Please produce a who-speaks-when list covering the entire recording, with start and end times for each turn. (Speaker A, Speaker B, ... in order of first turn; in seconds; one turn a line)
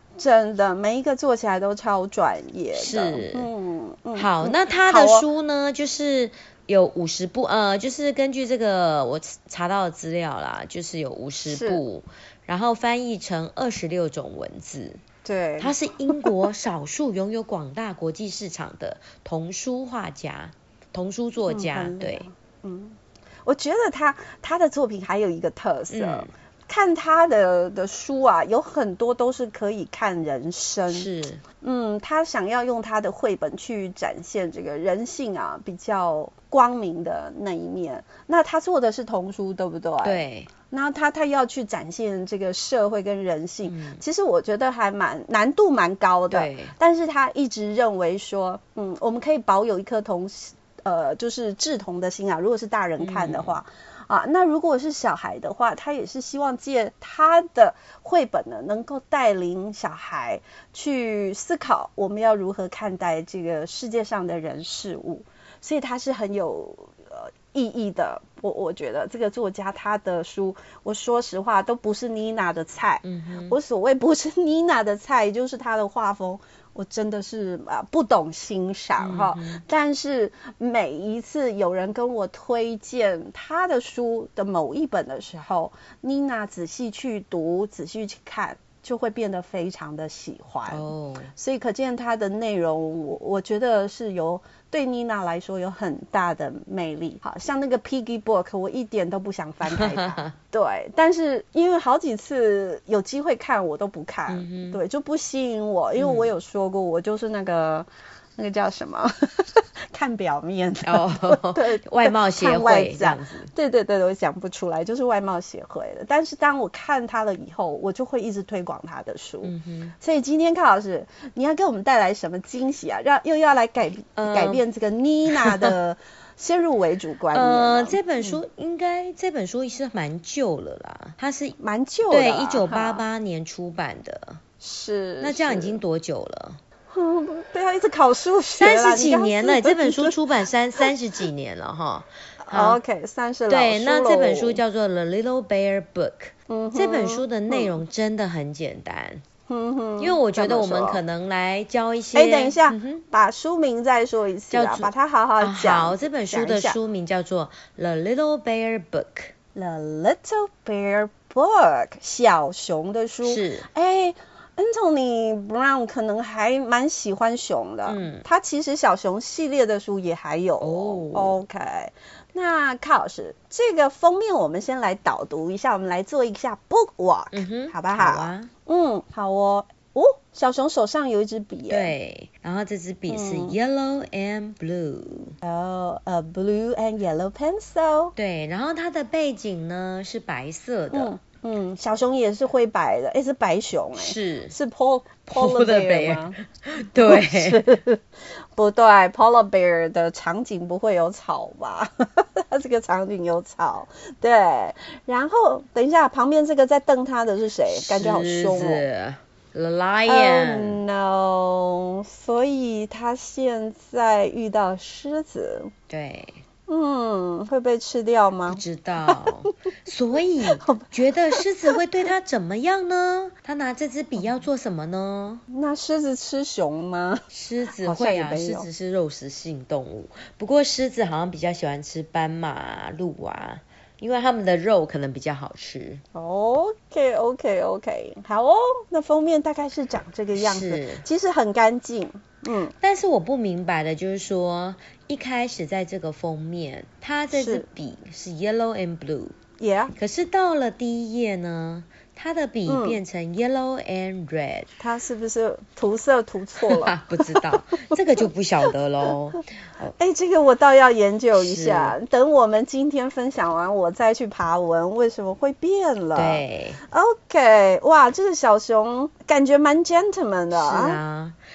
Speaker A: 0.1-5.2
Speaker B: 2.8-3.5
Speaker B: 4.1-15.0
Speaker A: 11.5-11.8
Speaker A: 15.2-16.4
Speaker B: 15.6-22.2
Speaker A: 21.5-31.1
Speaker B: 25.9-26.3
Speaker B: 30.9-31.4
Speaker A: 31.6-128.4
Speaker B: 40.0-40.5
Speaker B: 43.6-44.0
Speaker B: 46.3-46.8
Speaker B: 53.0-53.6
Speaker B: 73.0-73.6
Speaker B: 79.0-79.6
Speaker B: 90.7-91.3
Speaker B: 99.6-100.3
Speaker B: 104.3-104.8
Speaker B: 106.0-106.3
Speaker B: 110.9-113.5
Speaker B: 119.4-119.9
Speaker B: 124.2-124.6
Speaker B: 125.3-125.8
Speaker B: 127.3-131.6
Speaker A: 131.6-133.0
Speaker B: 132.1-134.4
Speaker A: 134.6-135.8
Speaker B: 135.2-136.6
Speaker A: 136.9-140.2
Speaker B: 138.5-142.8
Speaker A: 142.4-144.6
Speaker B: 143.5-149.2
Speaker A: 146.5-147.7
Speaker A: 149.5-151.0
Speaker B: 150.0-153.0
Speaker A: 152.1-156.8
Speaker B: 154.5-159.3
Speaker A: 159.6-181.9
Speaker B: 163.2-163.7
Speaker B: 167.9-168.2
Speaker B: 170.6-171.4
Speaker B: 177.3-178.5
Speaker B: 181.7-185.3
Speaker A: 183.1-183.6
Speaker A: 185.4-188.1
Speaker B: 188.2-191.1
Speaker A: 190.9-196.4
Speaker B: 194.0-194.6
Speaker B: 195.3-197.6
Speaker A: 196.9-198.0
Speaker A: 198.6-208.8
Speaker B: 207.7-210.8
Speaker A: 210.1-215.7
Speaker B: 215.9-216.4
Speaker A: 216.7-219.2
Speaker B: 218.5-225.4
Speaker A: 220.4-221.8
Speaker A: 225.5-227.2
Speaker B: 227.3-236.0
Speaker A: 227.8-228.7
Speaker A: 236.1-242.7
Speaker B: 240.3-241.0
Speaker B: 242.8-249.3
Speaker A: 247.3-247.7
Speaker A: 249.6-249.9
Speaker B: 249.9-254.7
Speaker A: 252.7-253.0
Speaker A: 254.8-258.0
Speaker B: 256.6-259.9
Speaker A: 260.0-271.0
Speaker B: 261.4-262.0
Speaker B: 266.1-266.8
Speaker B: 270.5-271.4